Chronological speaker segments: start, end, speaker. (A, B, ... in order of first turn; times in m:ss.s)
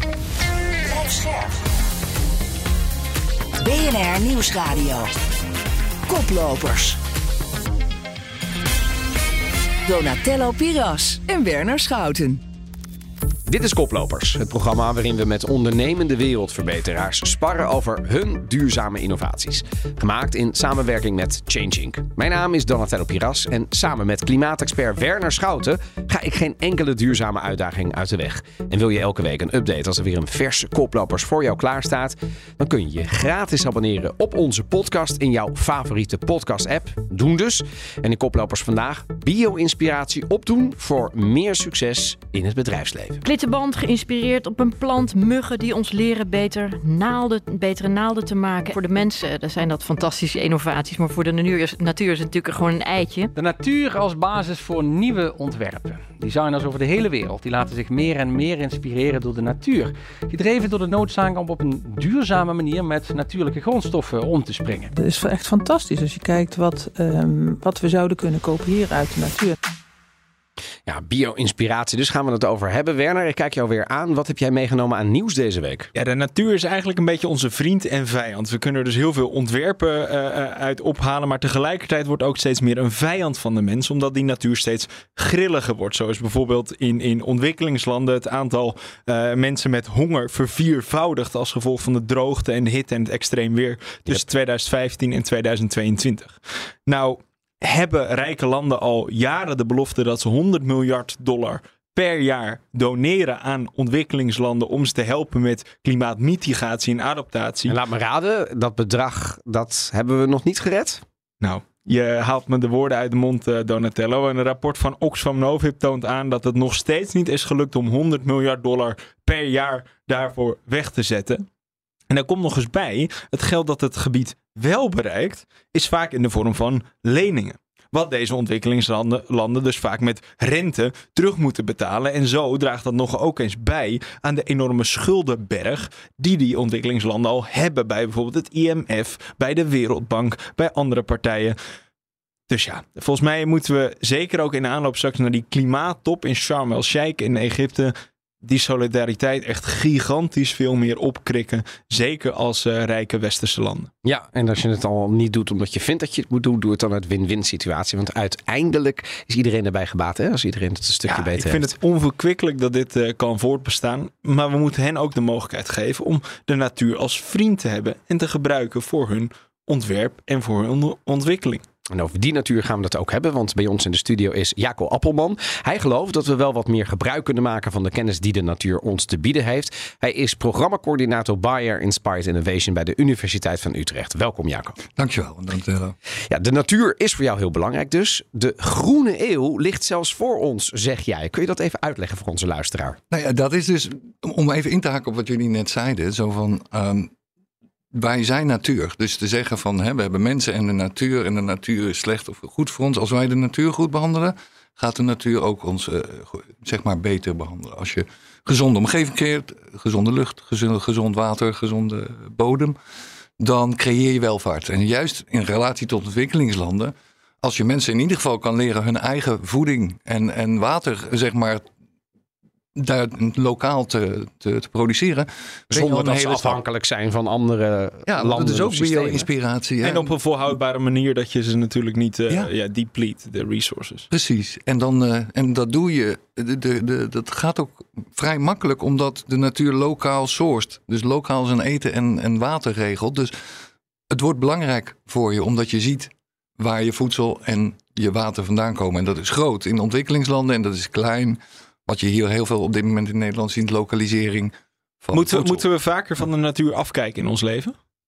0:00.9-0:01.5 A
0:03.6-0:05.1 A
0:06.1-0:07.0 A
0:09.9-0:12.4 A
0:13.5-0:43.2 B
0:43.2-0:53.3 C
0:53.4-1:04.9 D
1:04.9-1:09.6 E
1:10.9-1:15.9 B
1:16.0-1:47.8 F
1:47.7-1:51.0 B
1:51.4-2:01.5 F
2:02.1-2:21.6 F
2:22.5-2:33.9 F
2:34.0-2:41.7 B
2:41.1-2:51.6 F
2:51.9-3:04.8 B
3:04.9-3:06.0 G
3:06.3-3:13.0 B
3:13.1-3:17.1 G
3:17.9-3:32.8 G
3:33.4-3:41.6 G
3:42.8-3:46.6 G
3:45.7-3:49.3 B
3:48.1-3:50.1 G
3:49.8-3:54.1 F
3:54.1-4:03.3 G
4:04.1-4:15.6 G
4:15.1-4:17.8 F